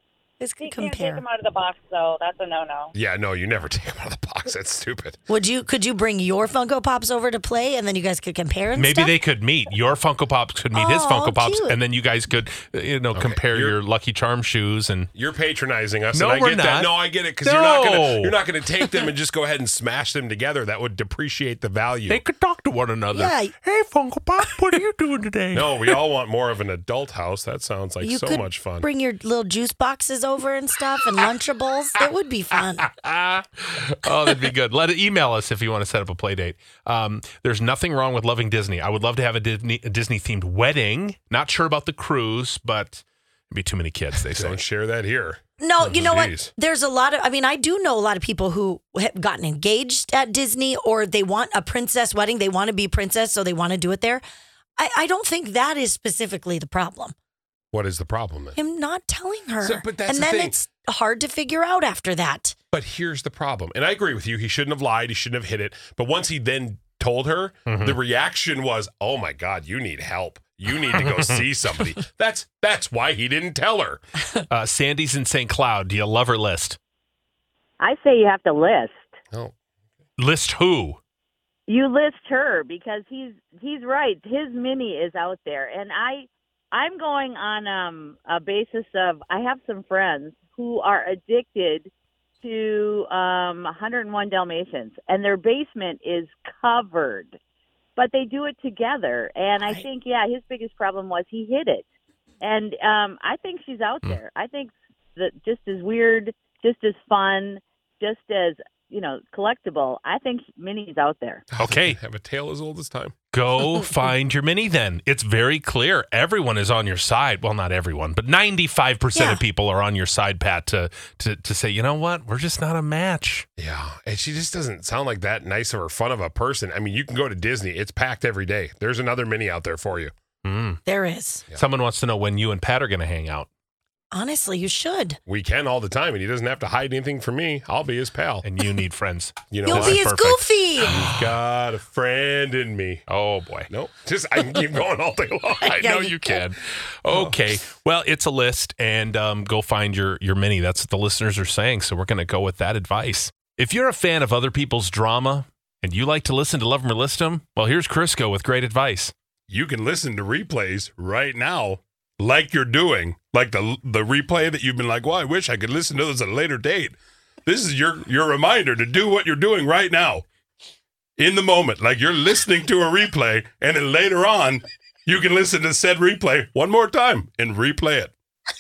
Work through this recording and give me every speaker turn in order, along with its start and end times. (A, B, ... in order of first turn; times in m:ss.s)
0:00.4-0:01.2 A
0:00.6-0:02.9 B
0:02.9-0:05.2 C
0:05.3-0:09.1 A
0:08.8-0:15.1 D
0:10.7-0:11.8 A
0:13.1-0:13.8 C
0:15.1-0:22.2 C
0:16.1-0:18.4 D
0:22.1-0:26.0 D
0:23.1-0:23.5 A
0:25.5-0:28.9 C
0:28.0-0:32.9 A
0:33.0-0:44.6 D
0:44.2-0:46.5 C
0:45.6-0:54.2 A
0:54.8-0:57.1 A
0:57.7-0:58.6 C
0:58.6-1:02.5 A
0:59.6-1:00.6 C
1:02.7-1:14.0 C
1:07.7-1:08.0 D
1:10.9-1:11.7 D
1:14.5-1:16.8 D
1:17.8-1:19.1 E
1:19.3-1:19.6 C
1:20.2-1:21.0 D
1:21.7-1:31.9 E
1:32.4-1:37.4 E
1:38.0-1:41.8 E
1:42.4-1:51.4 E
1:51.5-1:53.1 C
1:51.6-1:52.0 D
1:53.3-2:03.5 D
2:03.6-2:10.1 C
2:10.4-2:10.8 D
2:10.8-2:11.4 A
2:11.5-2:13.5 D
2:14.1-2:15.2 A
2:15.2-2:18.5 C
2:18.4-2:21.4 D
2:19.5-2:20.0 C
2:19.6-2:21.0 A
2:20.8-2:23.1 C
2:23.1-2:23.7 D
2:23.7-2:25.8 C
2:25.6-2:26.4 A
2:25.6-2:39.1 D
2:39.5-2:50.2 C
2:51.2-2:58.1 C